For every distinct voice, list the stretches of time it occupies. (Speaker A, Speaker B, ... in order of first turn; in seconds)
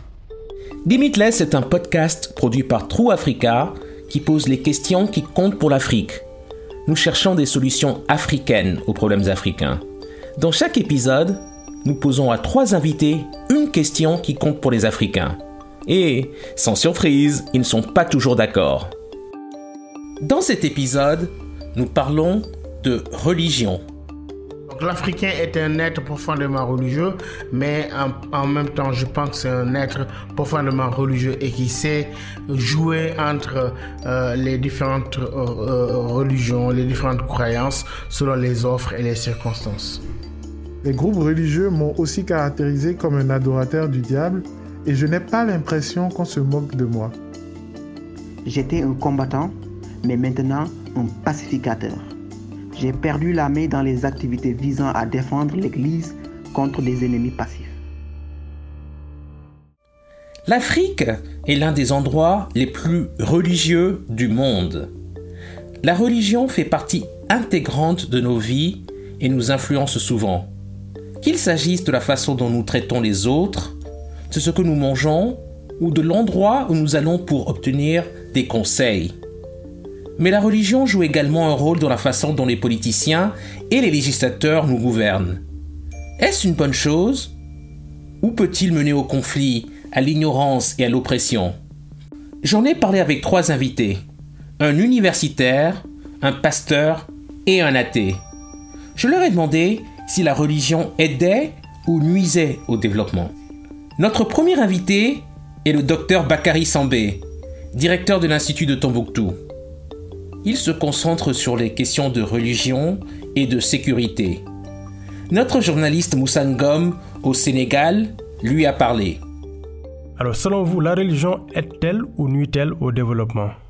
Speaker A: 0.8-6.2, 6.9-9.8, 10.4-18.9, 20.2-23.8, 60.5-64.9, 65.8-70.5, 71.2-73.8, 74.3-79.2, 80.2-85.4, 86.2-87.3, 88.2-91.5, 92.4-94.0, 94.6-98.2, 99.0-103.3, 104.0-109.4, 110.4-114.4, 115.3-119.2
Speaker B: 24.7-40.0
Speaker C: 40.8-47.1
Speaker D: 48.5-52.1, 52.8-57.8
Speaker E: 120.2-123.5